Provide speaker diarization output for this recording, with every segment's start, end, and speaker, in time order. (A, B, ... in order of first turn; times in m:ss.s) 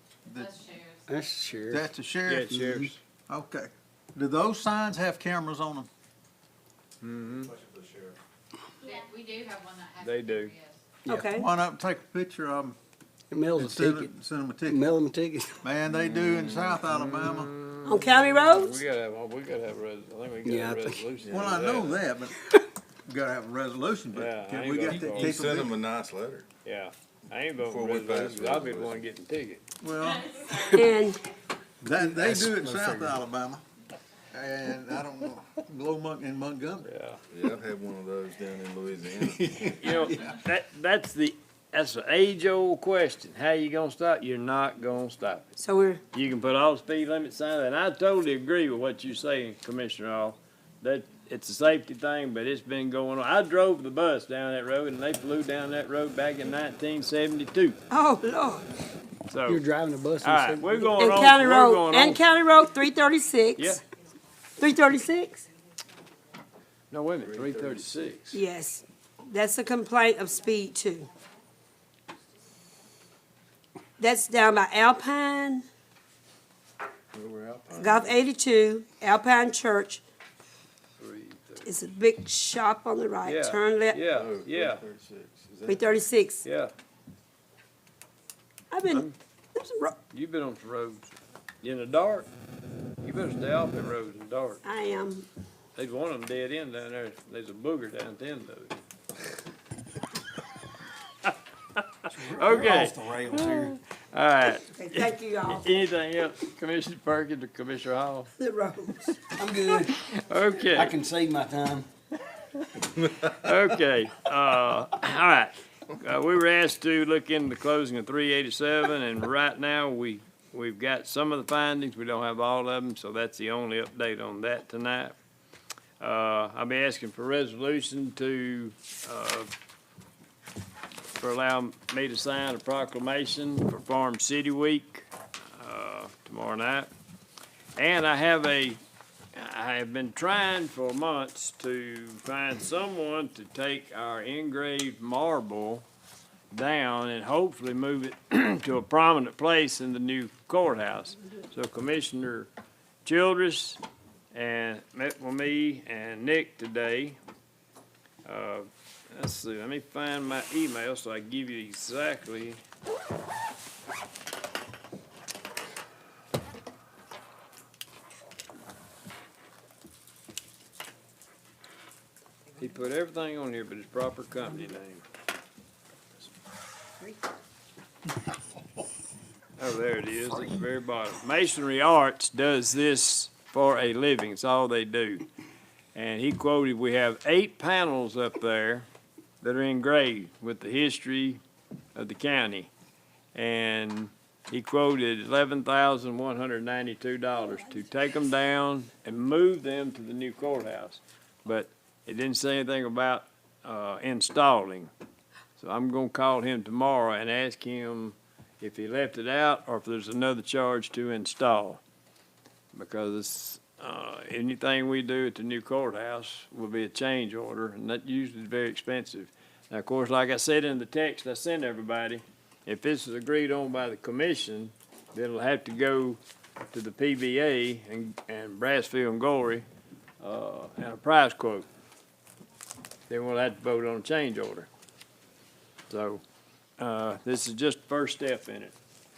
0:00.3-0:00.6 A
0:00.5-0:01.1 B
0:01.1-0:01.8 C
0:01.7-0:02.7 A
0:02.2-0:03.0 D
0:03.3-0:05.9 A
0:07.0-0:07.5 D
0:07.3-0:08.2 E
0:08.8-0:10.8 B
0:10.0-0:10.5 D
0:11.0-0:11.5 F
0:11.3-0:12.8 A
0:13.3-0:14.1 C
0:13.5-0:14.9 A
0:14.7-0:15.6 C
0:15.6-0:17.5 A
0:15.9-0:22.0 D
0:17.9-0:18.8 F
0:20.4-0:21.0 C
0:21.2-0:21.8 E
0:21.3-0:25.7 A
0:24.1-0:25.4 D
0:24.8-0:26.5 E
0:26.6-0:29.6 D
0:27.6-0:29.1 E
0:29.8-0:30.9 A
0:30.7-0:31.2 F
0:31.8-0:33.6 A
0:32.1-0:33.1 C
0:34.3-0:36.9 A
0:36.8-0:37.2 D
0:37.3-0:39.7 E
0:39.5-0:40.1 A
0:39.8-0:45.6 D
0:45.6-0:46.0 F
0:46.1-0:57.8 D
0:57.9-0:58.7 F
0:59.3-0:59.6 D
0:59.5-1:00.6 C
1:00.2-1:02.2 D
1:00.8-1:03.8 F
1:03.6-1:03.8 D
1:04.6-1:05.4 F
1:06.9-1:08.4 D
1:07.2-1:07.9 E
1:08.3-1:11.1 F
1:14.0-1:15.6 F
1:17.1-1:18.2 E
1:17.8-1:20.0 F
1:21.0-1:21.7 D
1:21.6-1:24.0 F
1:23.2-1:24.8 D
1:24.1-1:25.9 E
1:25.7-1:26.4 F
1:26.4-1:26.7 D
1:28.7-1:30.0 F
1:28.9-1:29.1 D
1:30.1-1:32.3 D
1:33.0-1:34.6 D
1:34.6-1:35.3 F
1:35.8-1:38.8 D
1:42.1-1:43.7 A
1:42.2-1:48.3 D
1:44.7-1:45.7 F
1:48.4-1:49.6 F
1:49.4-1:49.9 C
1:49.6-1:51.0 D
1:50.8-1:51.9 C
1:53.1-2:05.2 D
2:06.0-2:09.5 D
2:11.2-2:16.9 D
2:17.8-2:18.8 D
2:19.3-2:25.8 D
2:26.5-2:32.5 D
2:33.0-2:33.8 D
2:34.3-2:37.2 D
2:38.2-2:42.6 D
2:52.6-2:55.0 D
2:59.6-3:05.3 D
3:05.9-3:08.9 D
3:09.4-3:11.4 D
3:11.9-3:12.7 D
3:13.3-3:24.9 D
3:25.6-3:31.8 D
3:32.7-3:46.2 D
3:46.7-3:49.7 D
3:50.2-3:51.7 D
3:53.1-3:54.7 D
3:55.9-3:56.2 D
3:56.8-3:58.7 D